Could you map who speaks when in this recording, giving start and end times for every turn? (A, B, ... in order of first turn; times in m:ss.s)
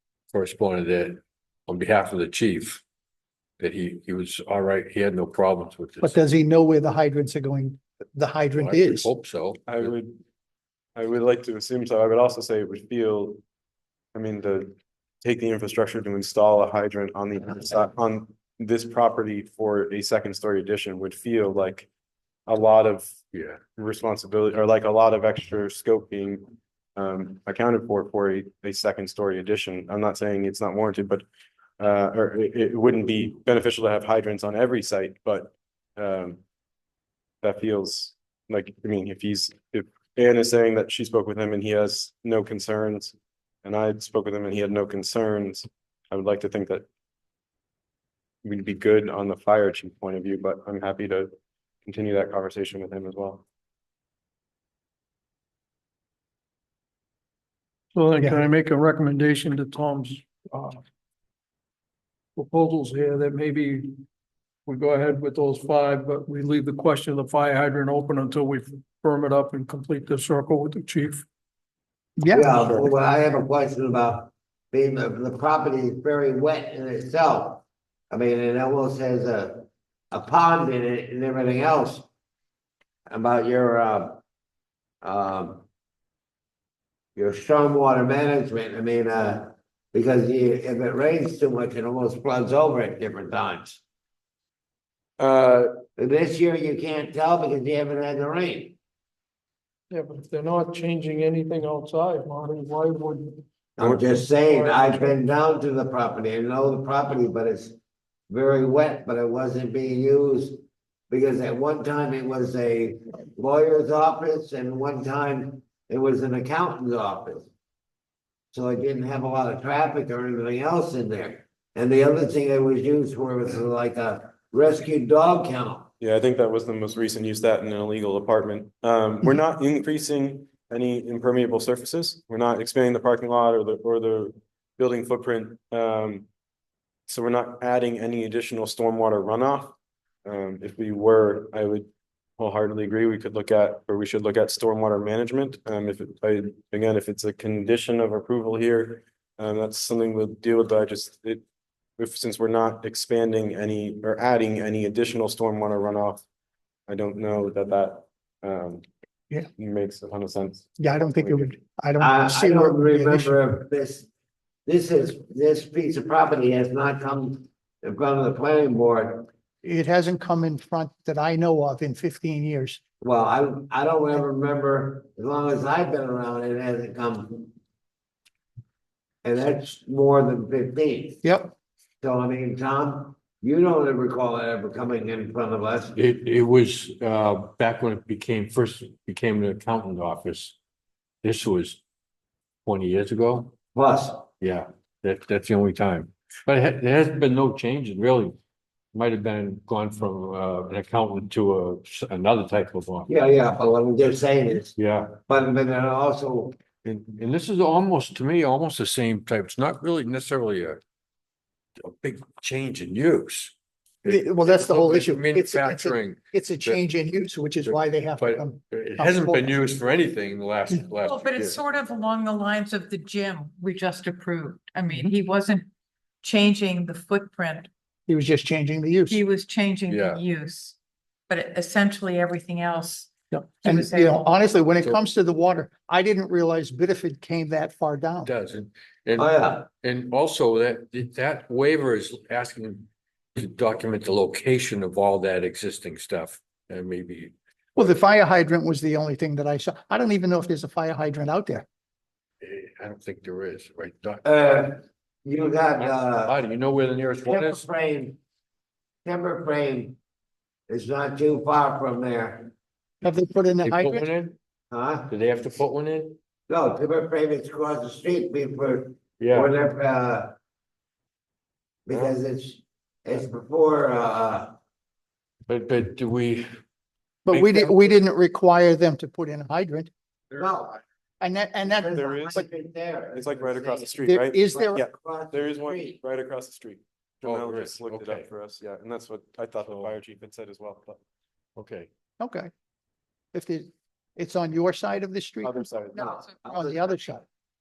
0:00.3-0:02.8 A
0:03.6-0:06.2 A
0:06.0-0:09.1 B
0:08.6-0:09.9 A
0:09.7-0:10.2 C
0:11.0-0:13.4 C
0:14.1-0:21.9 C
0:22.5-0:23.2 C
0:23.3-0:23.6 A
0:23.8-0:31.2 C
0:31.8-0:36.4 C
0:37.4-0:46.8 C
0:48.4-0:51.3 C
0:51.8-0:53.4 C
0:57.9-1:00.8 D
1:02.4-1:04.0 D
1:04.7-1:11.2 D
1:12.2-1:12.8 B
1:12.3-1:22.1 E
1:23.1-1:24.2 E
1:25.0-1:25.6 E
1:27.2-1:33.8 E
1:35.2-1:35.7 C
1:36.0-1:38.8 E
1:39.9-1:43.4 D
1:43.8-1:47.8 E
1:44.0-1:45.2 D
1:48.3-1:57.5 E
1:58.5-2:05.9 E
2:06.0-2:16.3 C
2:17.1-2:31.4 C
2:32.0-2:36.2 C
2:36.9-2:38.8 C
2:39.6-2:41.5 C
2:40.8-2:43.4 B
2:42.0-2:44.1 E
2:44.7-2:49.3 E
2:49.6-2:52.8 B
2:53.0-2:57.5 E
2:59.2-3:01.2 E
3:01.2-3:01.5 B
3:02.0-3:05.9 E
3:06.0-3:10.6 A
3:11.2-3:11.8 A
3:12.7-3:13.5 A
3:13.8-3:14.3 E
3:14.4-3:18.4 A
3:18.9-3:23.1 A
3:23.1-3:24.7 E
3:24.8-3:25.2 A
3:25.3-3:26.6 E
3:26.8-3:30.8 A
3:31.8-3:36.9 A
3:34.0-3:39.6 B
3:37.6-3:41.6 A
3:41.0-3:45.7 F
3:46.2-3:47.7 F
3:48.1-3:49.2 B
3:49.1-3:50.8 F
3:49.9-3:50.2 A
3:51.3-3:53.1 F
3:53.3-3:58.3 B
3:53.6-3:54.2 F
3:58.2-4:07.3 A
3:59.2-3:59.6 E
4:07.8-4:11.7 B
4:12.4-4:14.3 A
4:14.2-4:16.4 E
4:15.8-4:17.6 A
4:17.2-4:18.2 E
4:19.0-4:20.0 E
4:20.7-4:22.5 E
4:23.0-4:24.1 B
4:23.6-4:24.4 A
4:24.7-4:25.1 E
4:25.1-4:26.2 A
4:26.5-4:30.4 E
4:29.2-4:29.5 A
4:31.9-4:34.6 E
4:35.5-4:36.5 A
4:37.3-4:39.9 B
4:37.3-4:38.0 A
4:40.4-4:40.8 E
4:41.2-4:42.4 B
4:41.6-4:46.0 E
4:41.9-4:42.4 C
4:43.1-4:51.0 C
4:44.0-4:44.8 B
4:47.2-4:48.3 A
4:49.6-4:49.9 A
4:51.6-4:51.9 A
4:52.2-4:52.5 B
4:53.3-4:57.2 B
4:55.4-4:56.1 C
4:56.0-4:56.9 E